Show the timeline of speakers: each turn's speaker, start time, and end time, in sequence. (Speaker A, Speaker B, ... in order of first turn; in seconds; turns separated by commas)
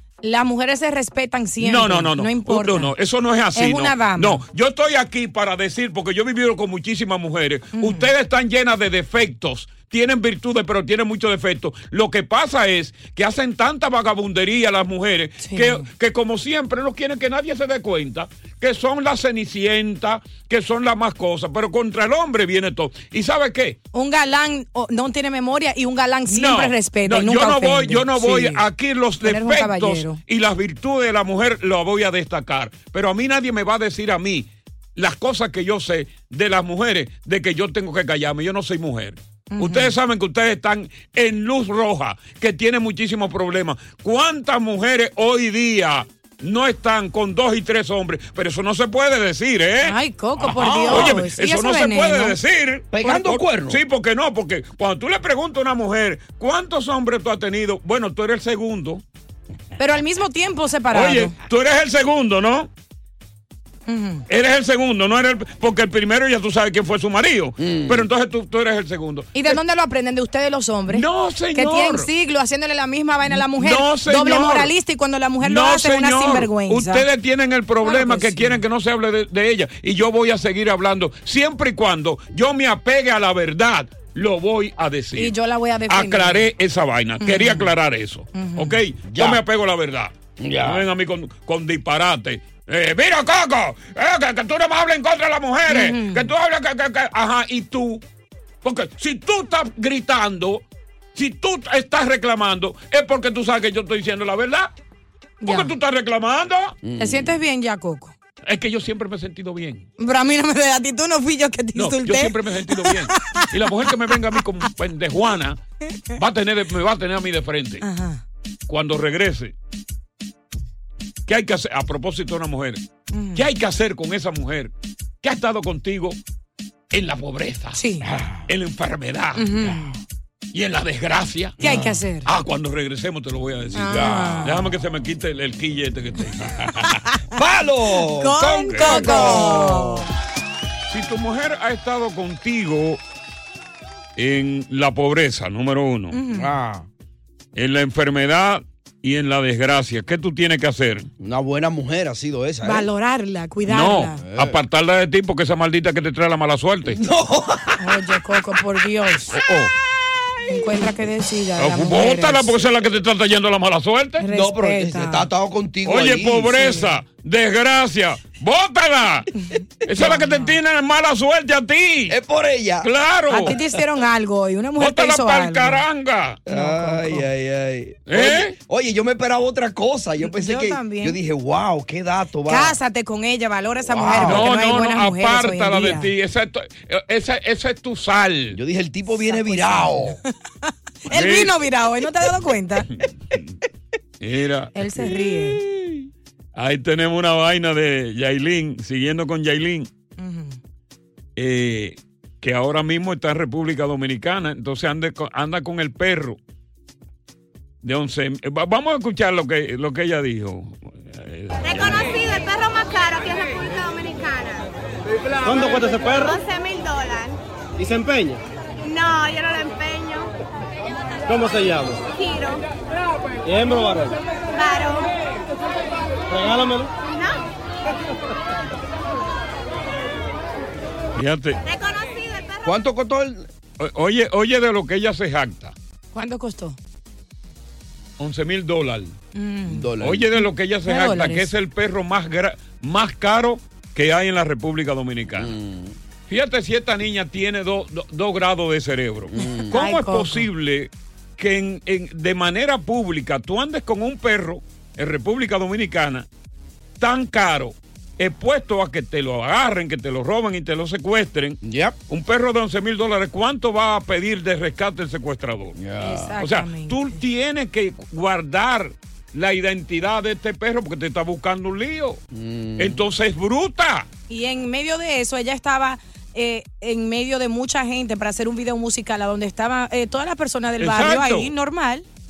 Speaker A: 0.2-2.9, Speaker B: 1.6-23.8, Speaker A: 3.5-4.4, Speaker A: 7.8-8.1, Speaker A: 15.4-15.8, Speaker A: 23.9-28.6, Speaker B: 26.3-50.0, Speaker A: 29.2-30.2, Speaker A: 39.5-39.9, Speaker A: 49.8-52.4, Speaker C: 50.4-51.2, Speaker B: 50.9-59.0, Speaker C: 52.9-53.8, Speaker A: 59.8-61.3, Speaker B: 60.9-62.7, Speaker A: 63.9-64.2, Speaker B: 64.3-69.5, Speaker C: 67.6-68.1, Speaker A: 69.3-77.0, Speaker B: 70.9-72.1, Speaker B: 73.3-74.7, Speaker B: 75.4-85.3, Speaker A: 77.8-78.6, Speaker A: 85.2-86.5, Speaker B: 85.9-98.0, Speaker A: 87.2-87.7, Speaker A: 88.3-88.8, Speaker C: 89.1-89.4, Speaker C: 90.4-90.9, Speaker A: 95.7-96.3, Speaker B: 98.6-104.7, Speaker A: 105.4-105.7, Speaker B: 105.5-106.8, Speaker C: 106.8-107.4, Speaker A: 107.0-108.1, Speaker B: 108.4-109.9, Speaker A: 110.0-114.4, Speaker B: 111.8-115.6, Speaker B: 116.2-117.8, Speaker A: 117.8-118.2, Speaker B: 118.7-119.5, Speaker B: 121.3-122.8, Speaker A: 123.1-123.4, Speaker B: 123.3-126.2, Speaker B: 126.9-127.8, Speaker A: 127.7-128.1, Speaker C: 128.0-128.5, Speaker B: 128.5-129.5, Speaker A: 129.4-129.9, Speaker C: 129.6-129.9, Speaker B: 130.5-131.6, Speaker C: 131.6-132.0, Speaker A: 131.6-132.3, Speaker B: 132.2-136.6, Speaker A: 133.8-134.6, Speaker C: 133.8-134.6, Speaker A: 136.7-137.2, Speaker C: 137.3-140.1, Speaker A: 138.0-140.1, Speaker B: 138.7-139.5, Speaker B: 140.9-143.0, Speaker B: 144.2-146.2, Speaker A: 146.1-146.5, Speaker C: 146.3-146.9, Speaker B: 147.6-151.1, Speaker C: 151.2-152.9, Speaker A: 152.6-154.2, Speaker B: 153.7-157.0, Speaker C: 154.2-154.6, Speaker C: 156.9-158.0, Speaker A: 157.8-159.3, Speaker B: 159.3-159.7, Speaker A: 160.4-162.6, Speaker B: 161.6-164.2, Speaker A: 164.2-165.3, Speaker C: 164.2-166.6, Speaker B: 165.8-169.3, Speaker A: 166.6-166.9, Speaker A: 169.4-170.6, Speaker B: 169.8-172.2, Speaker C: 172.1-172.9, Speaker B: 172.8-173.6, Speaker A: 173.3-175.8, Speaker B: 174.8-176.4, Speaker C: 176.4-182.8, Speaker A: 176.5-177.3, Speaker B: 178.1-178.6, Speaker A: 180.2-181.2, Speaker A: 182.5-186.1, Speaker C: 183.9-184.5, Speaker B: 184.2-188.6, Speaker C: 188.5-190.2, Speaker A: 189.1-192.9, Speaker B: 191.1-191.6, Speaker B: 194.2-195.1, Speaker A: 194.8-195.6, Speaker B: 196.6-199.9, Speaker A: 200.2-200.6, Speaker B: 201.4-206.4, Speaker B: 207.8-212.1, Speaker D: 211.6-214.7, Speaker E: 215.4-216.3, Speaker D: 216.1-217.4, Speaker E: 217.8-218.4, Speaker D: 218.8-220.3, Speaker E: 221.3-222.0, Speaker D: 222.1-222.6, Speaker E: 223.4-224.2, Speaker D: 224.5-225.1, Speaker E: 226.3-226.9, Speaker D: 227.1-227.4, Speaker B: 231.1-231.6, Speaker D: 231.6-232.7, Speaker C: 232.6-233.5, Speaker B: 233.8-235.8, Speaker A: 236.1-236.8, Speaker B: 238.2-239.1, Speaker A: 239.3-241.5, Speaker C: 239.7-240.3, Speaker B: 240.0-245.5, Speaker C: 245.3-246.0, Speaker B: 246.3-256.3, Speaker C: 249.3-249.8, Speaker A: 249.7-250.5, Speaker B: 257.0-265.8, Speaker C: 261.6-262.0, Speaker C: 265.8-266.4, Speaker A: 266.0-267.2, Speaker B: 266.4-272.2, Speaker C: 272.3-273.0, Speaker B: 272.8-274.1, Speaker A: 274.3-282.1, Speaker B: 280.8-281.5